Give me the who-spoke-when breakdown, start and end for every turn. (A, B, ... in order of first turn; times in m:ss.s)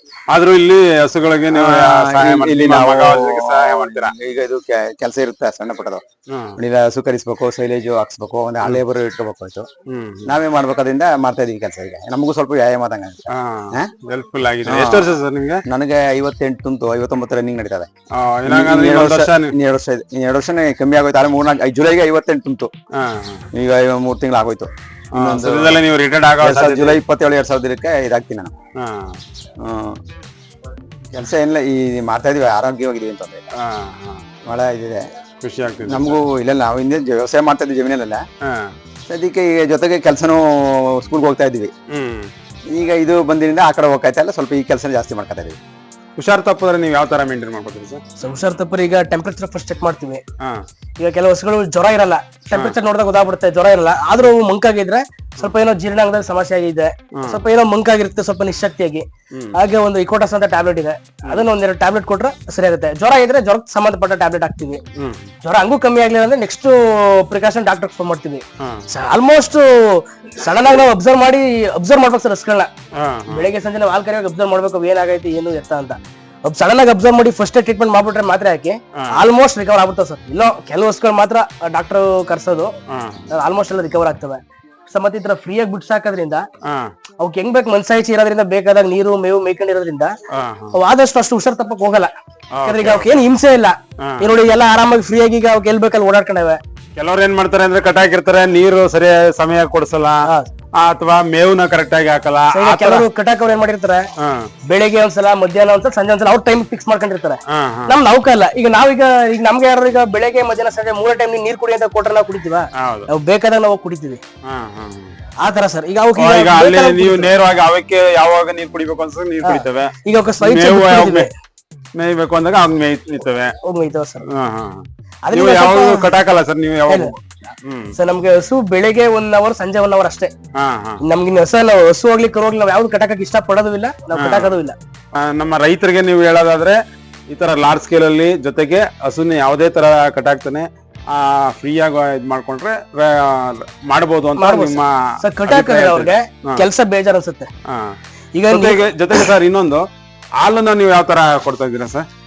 0:00.3-0:04.1 A
0:01.5-0:06.0 B
0:06.3-0:06.6 A
0:06.6-0:09.7 B
0:09.9-0:10.3 A
0:10.3-0:13.9 B
0:13.3-0:15.6 A
0:14.7-0:15.1 B
0:15.7-0:17.9 B
0:18.2-0:19.5 A
0:18.5-0:22.7 B
0:23.0-0:23.5 A
0:23.5-0:25.8 B
0:25.1-0:27.0 A
0:26.4-0:28.5 B
0:28.8-0:29.2 A
0:29.6-0:30.0 B
0:31.1-0:33.5 B
0:33.6-0:34.3 A
0:34.5-0:35.1 B
0:35.4-0:36.2 A
0:35.9-0:38.2 B
0:38.4-0:38.7 A
0:39.1-0:41.7 B
0:41.9-0:42.3 A
0:42.7-0:45.6 B
0:46.2-0:48.0 A
0:48.2-0:50.2 C
0:51.0-1:04.8 C
0:57.2-0:57.4 A
1:05.0-1:05.3 A
1:05.4-1:12.7 C
1:08.6-1:08.9 A
1:13.0-1:13.5 A
1:13.3-1:22.7 C
1:19.0-1:19.2 A
1:22.9-1:23.2 A
1:23.3-1:26.4 C
1:26.6-1:26.9 A
1:27.2-1:30.1 C
1:30.3-1:30.8 A
1:30.7-1:32.1 C
1:32.5-1:33.2 A
1:32.6-1:36.6 C
1:34.0-1:34.3 A
1:37.0-1:40.3 A
1:40.8-1:43.1 A
1:42.5-1:44.1 C
1:44.2-1:44.5 A
1:44.7-1:54.2 C
1:47.5-1:48.0 A
1:52.8-1:53.1 A
1:54.4-1:55.2 A
1:55.4-1:57.3 C
1:56.2-2:01.3 A
1:59.4-2:01.3 C
2:02.0-2:03.6 A
2:03.6-2:04.2 C
2:04.3-2:07.9 A
2:05.2-2:06.1 C
2:08.0-2:10.3 C
2:10.6-2:11.0 A
2:11.0-2:14.8 C
2:14.1-2:14.6 A
2:15.1-2:16.8 A
2:17.3-2:26.7 A
2:24.4-2:27.5 C
2:27.7-2:28.0 A
2:28.4-2:29.3 C
2:28.5-2:29.8 A
2:30.4-2:32.1 A